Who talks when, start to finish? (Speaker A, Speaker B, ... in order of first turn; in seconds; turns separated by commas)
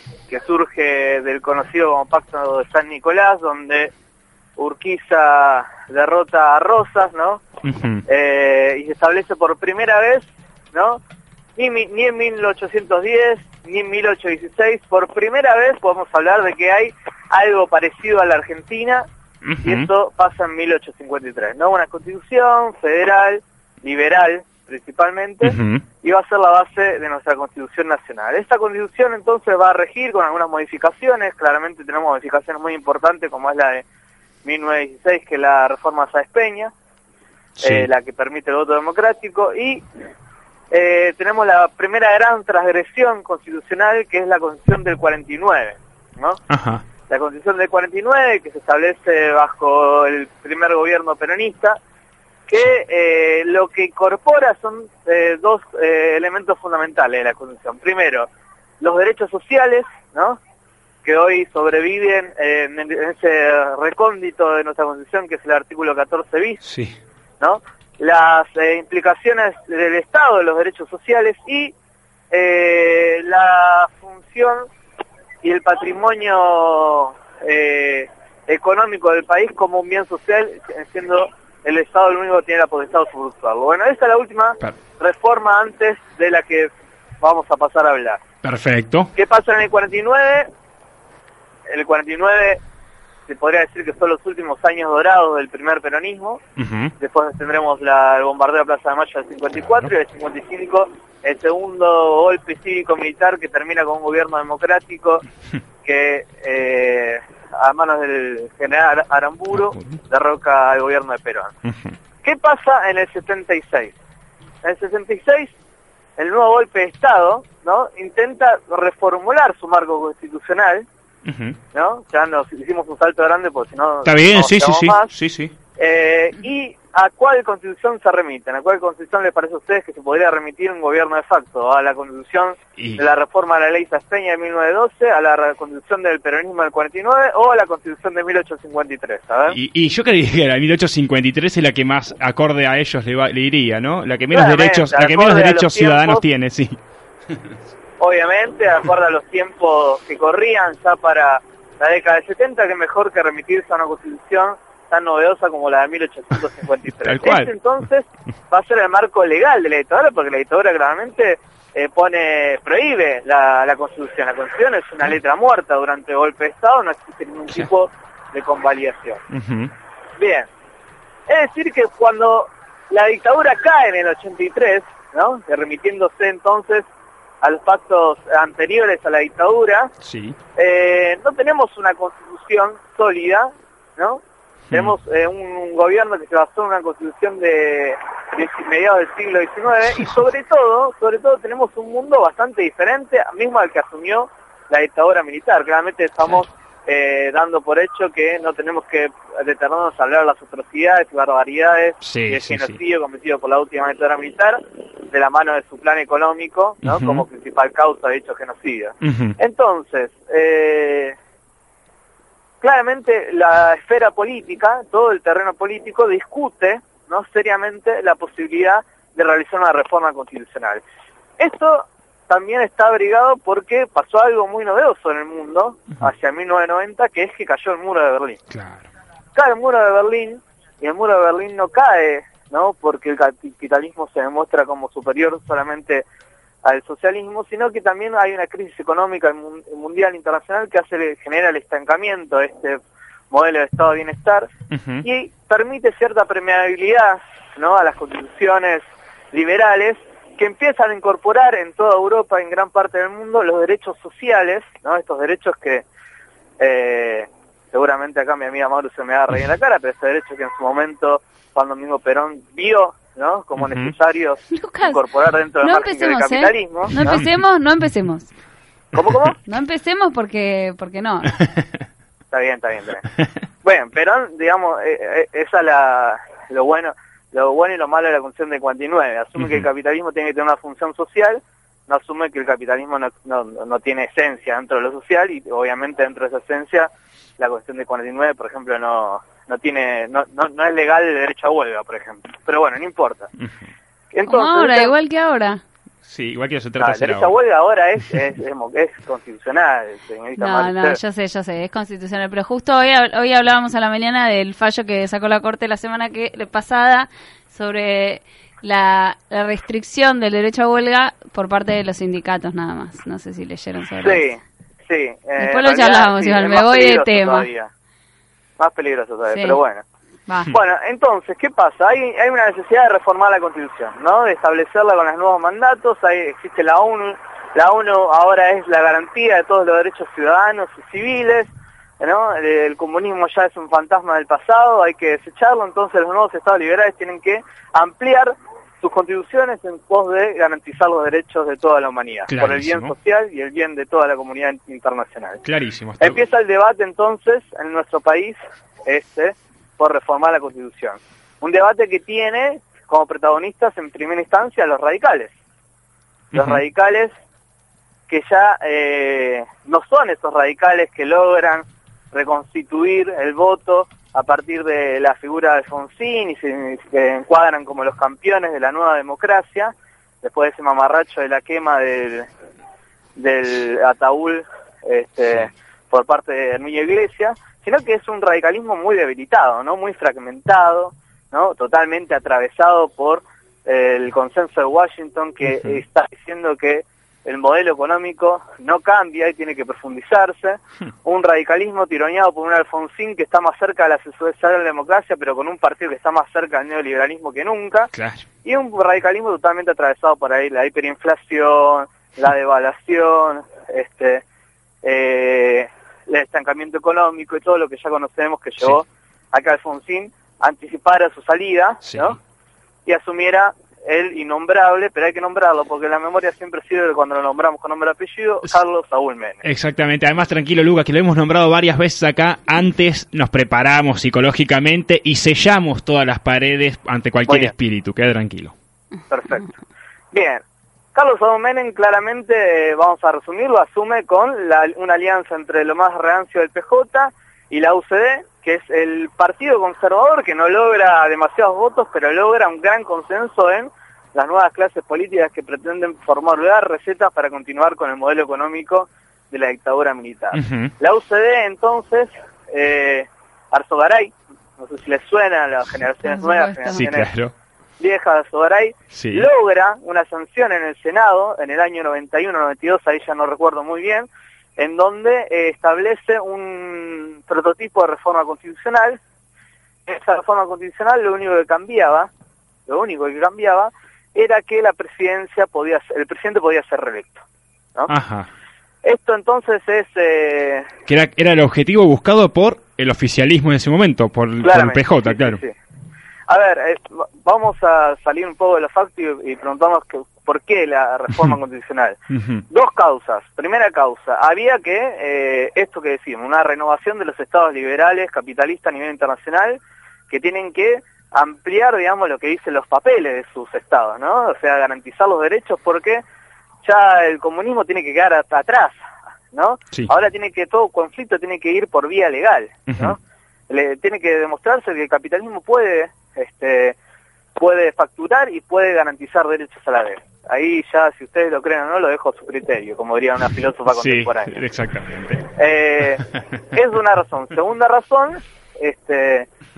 Speaker A: 0.3-3.9, Speaker A: 4.6-7.4, Speaker B: 7.6-8.0, Speaker A: 8.1-11.0, Speaker A: 11.6-19.1, Speaker B: 19.4-19.9, Speaker A: 19.6-33.8, Speaker B: 25.4-25.8, Speaker A: 34.4-36.7, Speaker B: 37.6-37.9, Speaker A: 37.6-39.8, Speaker A: 40.7-46.4, Speaker B: 46.5-46.9, Speaker A: 47.1-51.8, Speaker A: 52.5-58.3, Speaker A: 58.8-60.4, Speaker A: 61.0-66.6, Speaker B: 66.6-67.0, Speaker A: 67.4-71.7, Speaker A: 72.3-74.7, Speaker A: 75.4-88.2, Speaker B: 88.4-89.1, Speaker A: 89.1-90.5, Speaker A: 91.7-92.6, Speaker A: 93.3-96.4, Speaker B: 96.6-96.9, Speaker A: 97.0-105.2, Speaker A: 105.8-111.5, Speaker B: 109.5-110.0, Speaker B: 111.6-112.0, Speaker A: 112.2-113.9, Speaker A: 114.6-115.5, Speaker A: 116.2-120.8, Speaker B: 121.2-121.6, Speaker A: 121.7-125.1, Speaker B: 124.0-125.5, Speaker A: 125.8-139.6, Speaker B: 132.8-133.1, Speaker B: 139.5-146.8, Speaker A: 144.3-146.2, Speaker A: 148.0-169.2, Speaker B: 157.0-157.5, Speaker B: 169.3-169.7, Speaker A: 170.2-170.5, Speaker A: 171.3-176.8, Speaker A: 177.4-179.9, Speaker B: 180.0-180.3, Speaker A: 180.6-211.2, Speaker B: 184.7-184.9, Speaker B: 202.0-202.8, Speaker B: 206.8-207.2, Speaker B: 209.0-209.4, Speaker A: 212.6-220.8, Speaker A: 221.4-228.4, Speaker B: 228.5-228.9, Speaker A: 229.3-236.0, Speaker A: 236.6-242.8, Speaker A: 243.3-244.5, Speaker B: 244.7-245.1, Speaker A: 245.0-255.8, Speaker A: 256.6-267.2, Speaker B: 263.6-263.9, Speaker C: 264.5-265.0, Speaker C: 265.6-268.3, Speaker A: 268.9-269.4, Speaker C: 269.4-271.3, Speaker B: 271.3-271.6, Speaker A: 272.3-273.0, Speaker A: 273.6-293.3, Speaker B: 279.4-279.7, Speaker A: 294.1-294.9, Speaker C: 294.3-295.6, Speaker B: 296.0-297.3, Speaker A: 296.8-301.0, Speaker C: 300.4-314.2, Speaker A: 314.0-317.7, Speaker C: 315.4-317.5, Speaker A: 318.6-319.8, Speaker C: 319.3-319.6, Speaker A: 320.5-331.5, Speaker A: 332.0-345.4, Speaker B: 342.3-342.9, Speaker B: 345.4-346.2, Speaker A: 346.0-355.3, Speaker B: 356.3-356.6, Speaker A: 356.3-357.1, Speaker A: 358.1-372.3, Speaker A: 373.2-397.9, Speaker B: 385.4-385.8, Speaker B: 397.9-398.3, Speaker A: 398.4-404.2, Speaker A: 404.8-412.2, Speaker B: 411.8-412.2, Speaker A: 412.9-419.4, Speaker B: 419.4-428.5, Speaker A: 429.1-429.5, Speaker A: 430.1-430.4, Speaker A: 430.9-457.1, Speaker B: 450.3-450.7, Speaker C: 456.1-456.8, Speaker B: 456.7-457.3, Speaker A: 457.8-469.0, Speaker B: 458.9-459.3, Speaker A: 469.9-472.1, Speaker A: 472.7-477.2, Speaker B: 477.9-478.3, Speaker A: 478.8-480.7, Speaker B: 480.9-485.4, Speaker A: 484.4-485.5, Speaker A: 486.3-492.0, Speaker B: 492.1-492.4, Speaker A: 492.5-506.0, Speaker A: 506.6-508.8, Speaker A: 509.3-513.0, Speaker B: 512.7-513.0, Speaker A: 513.5-516.8, Speaker A: 517.4-524.4, Speaker B: 523.7-525.3, Speaker A: 525.4-529.3